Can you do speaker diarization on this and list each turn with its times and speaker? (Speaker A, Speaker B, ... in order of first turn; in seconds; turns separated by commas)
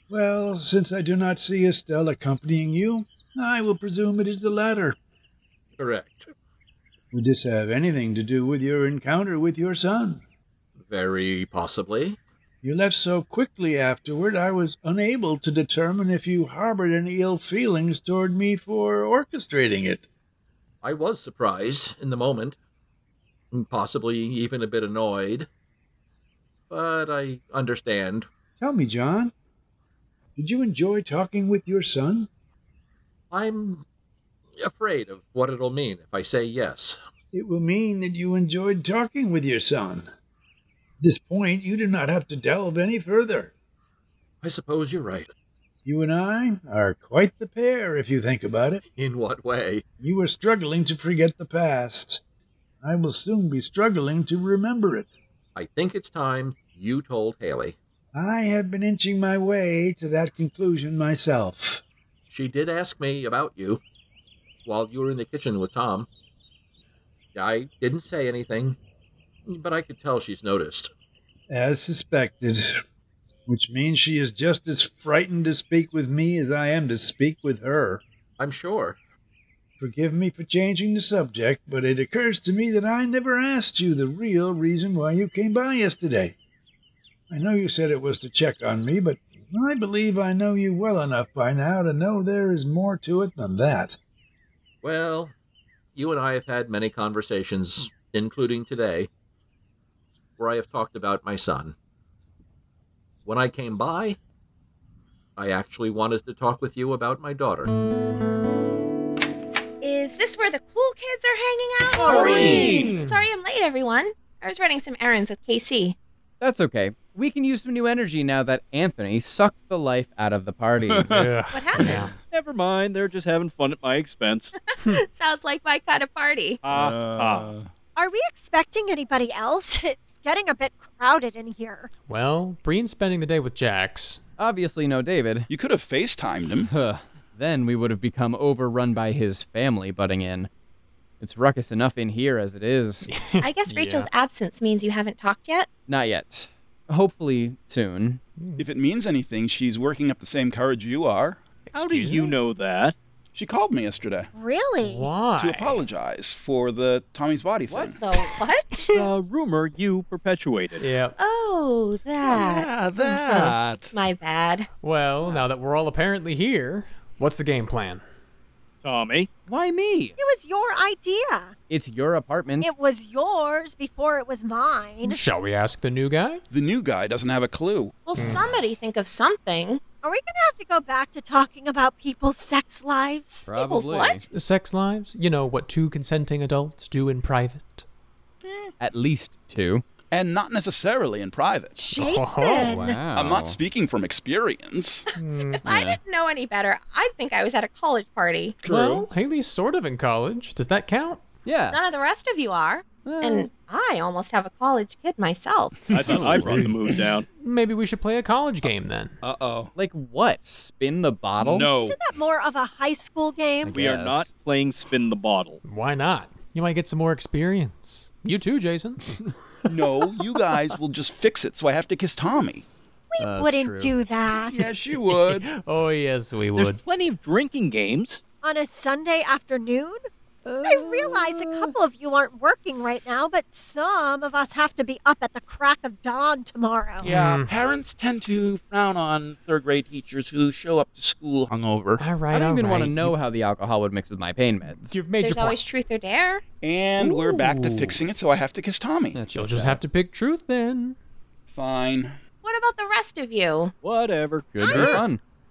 Speaker A: 0.1-5.0, Speaker B: 5.8-6.3, Speaker A: 7.1-10.2, Speaker B: 10.8-12.2, Speaker A: 12.6-20.0, Speaker B: 20.8-22.6, Speaker B: 23.5-25.5, Speaker B: 26.7-28.3, Speaker A: 28.6-29.3, Speaker A: 30.4-32.3, Speaker B: 33.3-33.8, Speaker B: 34.6-37.0, Speaker A: 37.3-40.1, Speaker A: 41.0-43.5, Speaker B: 44.4-45.3, Speaker A: 45.8-48.8, Speaker B: 48.9-49.8, Speaker A: 50.0-52.2, Speaker A: 52.8-55.1, Speaker B: 55.5-57.8, Speaker A: 58.1-61.8, Speaker B: 62.3-63.8, Speaker B: 64.6-66.1, Speaker B: 67.3-68.8, Speaker B: 69.5-70.9, Speaker A: 71.5-72.7, Speaker A: 73.5-78.0, Speaker B: 78.4-79.0, Speaker A: 79.8-86.3, Speaker A: 87.3-94.0, Speaker B: 94.8-95.3, Speaker B: 95.9-99.1, Speaker B: 100.4-101.8, Speaker B: 103.2-104.2, Speaker B: 105.3-107.7, Speaker C: 109.8-116.0, Speaker D: 112.0-112.9, Speaker E: 112.4-113.2, Speaker F: 112.5-113.0, Speaker G: 116.4-121.2, Speaker D: 120.9-121.2, Speaker E: 121.1-122.1, Speaker C: 121.5-122.0, Speaker F: 122.3-124.5, Speaker C: 124.6-126.6, Speaker F: 126.6-127.5, Speaker D: 126.7-127.7, Speaker H: 128.0-131.9, Speaker E: 132.1-134.2, Speaker G: 134.4-135.5, Speaker D: 135.5-136.7, Speaker G: 136.7-140.5, Speaker G: 141.2-143.1, Speaker E: 143.1-144.1, Speaker C: 143.4-145.7, Speaker G: 145.9-148.2, Speaker E: 148.4-148.7, Speaker D: 148.6-151.4, Speaker E: 151.7-152.3, Speaker F: 151.7-152.9, Speaker D: 153.3-154.3, Speaker H: 154.3-155.1, Speaker E: 154.8-155.8, Speaker D: 155.3-158.5, Speaker G: 157.7-157.9, Speaker C: 158.0-159.0, Speaker F: 158.9-160.8, Speaker E: 160.8-161.1, Speaker C: 161.2-164.7, Speaker D: 162.2-163.9, Speaker E: 164.8-168.0, Speaker F: 168.8-169.3, Speaker G: 169.5-170.2, Speaker H: 170.2-171.5, Speaker G: 171.7-172.7, Speaker H: 172.6-175.2, Speaker E: 175.0-176.4, Speaker D: 176.5-178.1, Speaker C: 178.0-179.8, Speaker E: 178.1-178.6, Speaker H: 180.0-183.6, Speaker G: 183.5-184.2, Speaker C: 183.6-184.3, Speaker E: 184.3-187.8, Speaker G: 188.8-189.8, Speaker D: 190.1-191.8, Speaker H: 191.8-192.8, Speaker E: 191.9-193.1, Speaker G: 192.6-193.6, Speaker D: 193.1-195.1, Speaker C: 195.1-198.7, Speaker E: 195.2-195.6, Speaker G: 195.6-196.0, Speaker D: 198.6-199.1, Speaker E: 198.7-201.2, Speaker G: 201.4-201.8, Speaker C: 201.7-206.2, Speaker G: 203.1-203.5, Speaker F: 205.9-207.2, Speaker D: 205.9-207.0, Speaker E: 206.3-206.7, Speaker E: 207.4-209.2, Speaker D: 209.2-209.7, Speaker G: 209.8-211.7, Speaker D: 211.4-212.0, Speaker H: 211.8-213.8, Speaker G: 213.6-214.3, Speaker F: 213.7-215.6, Speaker E: 215.6-219.3, Speaker D: 219.7-222.7, Speaker H: 223.1-224.7, Speaker G: 223.2-224.0, Speaker D: 224.3-225.4, Speaker E: 225.1-226.8, Speaker F: 226.6-228.2, Speaker H: 228.4-230.0, Speaker G: 230.4-231.7, Speaker H: 230.6-237.1, Speaker E: 237.0-237.6, Speaker I: 237.0-242.0, Speaker E: 242.0-243.1, Speaker G: 242.3-245.0, Speaker E: 244.6-245.6, Speaker C: 245.2-246.4, Speaker D: 246.6-249.2, Speaker E: 247.0-248.0, Speaker G: 249.1-249.8, Speaker E: 249.3-251.0, Speaker D: 251.5-252.2, Speaker C: 252.4-253.7, Speaker F: 253.8-255.0, Speaker G: 254.5-255.2, Speaker H: 254.6-255.0